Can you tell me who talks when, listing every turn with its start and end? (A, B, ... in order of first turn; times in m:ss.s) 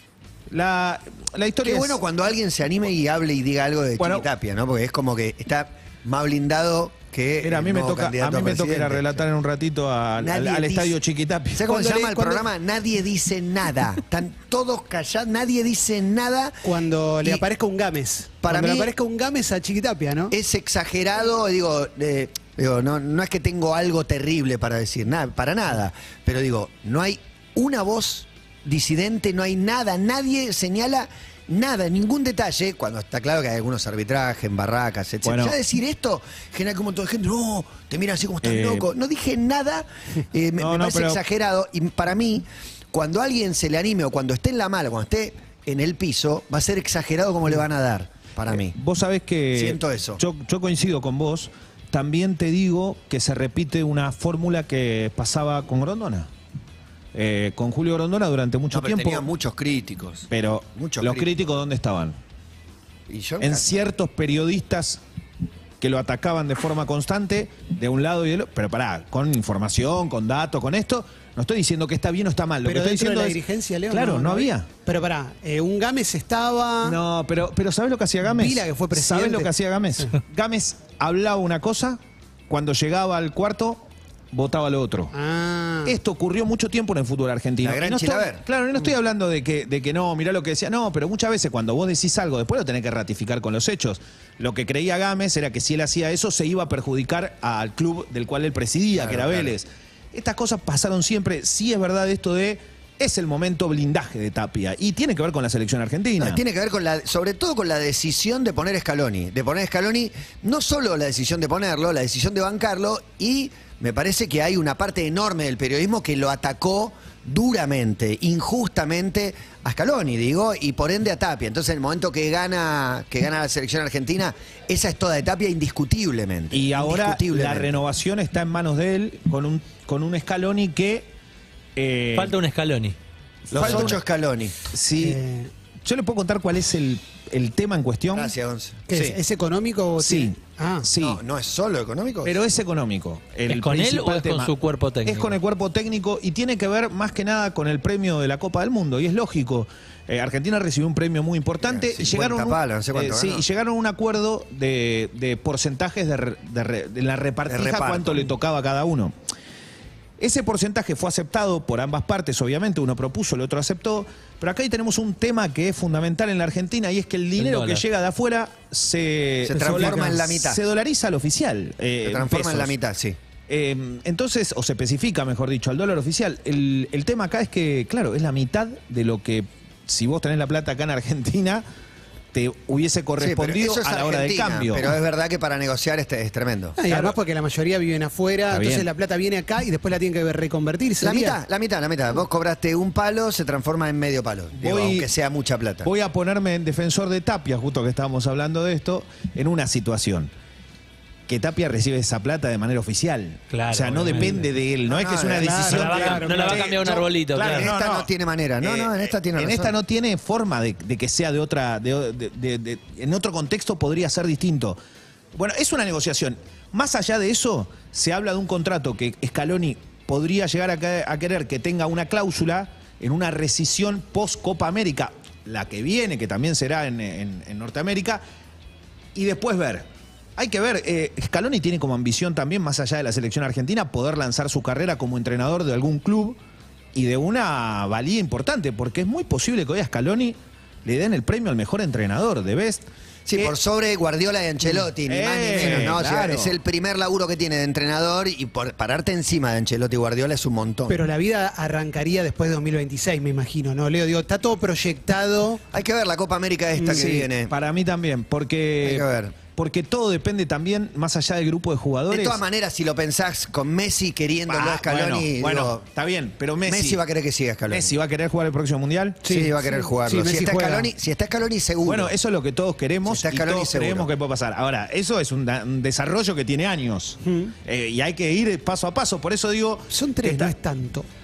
0:00.5-0:02.0 A
0:01.6-0:09.2 B
0:04.0-0:04.3 A
0:07.4-0:11.7 A
0:10.2-0:11.0 B
0:11.6-0:16.6 B
0:11.7-0:12.5 C
0:16.6-0:20.4 C
0:18.4-0:18.9 B
0:20.3-0:48.8 B
0:35.2-0:35.6 A
0:38.4-0:38.9 A
0:40.6-0:41.2 A
0:48.6-0:56.3 A
0:49.5-0:50.2 B
0:57.1-0:59.3 A
0:58.7-1:01.3 B
1:00.3-1:02.2 A
1:03.1-1:03.8 B
1:03.4-1:05.0 A
1:05.8-1:14.7 A
1:12.6-1:17.0 C
1:16.8-1:25.1 A
1:18.2-1:20.1 C
1:25.1-1:26.0 C
1:25.8-1:46.4 A
1:27.6-1:28.4 B
1:39.0-1:39.5 B
1:46.2-2:07.8 B
2:06.5-2:11.1 A
2:11.8-2:12.4 A
2:12.1-2:13.0 D
2:13.5-2:14.0 A
2:13.5-2:14.6 B
2:14.7-2:15.2 A
2:15.0-2:15.5 C
2:15.8-2:18.3 A
2:18.1-2:19.2 B
2:18.9-2:20.9 C
2:20.0-2:21.2 A
2:21.0-2:22.4 B
2:22.2-2:24.5 A
2:23.5-2:25.4 D
2:25.0-2:39.1 A
2:31.6-2:33.4 B
2:37.5-2:38.3 B
2:40.2-2:52.8 A
2:47.4-2:47.8 D
2:49.4-2:50.6 B
2:49.6-2:50.1 C
2:52.0-2:53.2 B
2:53.5-3:01.6 A
3:02.3-3:04.9 A
3:03.2-3:06.8 B
3:06.8-3:11.4 C
3:06.9-3:07.2 A
3:08.5-3:08.9 A
3:11.0-3:15.9 B
3:14.6-3:15.1 A
3:15.8-3:20.3 A
3:21.3-3:28.1 A
3:23.5-3:24.5 D
3:24.9-3:25.6 B
3:25.4-3:26.7 C
3:25.6-3:27.7 D
3:26.5-3:29.8 B
3:28.6-3:34.8 A
3:35.3-3:48.2 A
3:49.2-3:49.9 A
3:50.4-3:56.4 A
3:57.0-4:02.8 A
4:03.3-4:11.0 B
4:05.1-4:06.6 A
4:10.9-4:15.6 C
4:15.7-4:17.5 B
4:16.8-4:17.1 C
4:16.9-4:22.4 A
4:18.8-4:19.4 B
4:22.1-4:25.8 B
4:24.5-4:27.0 A
4:26.7-4:27.9 B
4:27.7-4:29.2 A
4:29.2-4:30.9 C
4:29.3-4:32.1 B
4:31.8-4:40.5 A
4:33.0-4:34.1 B
4:37.2-4:37.5 C
4:39.9-4:41.1 C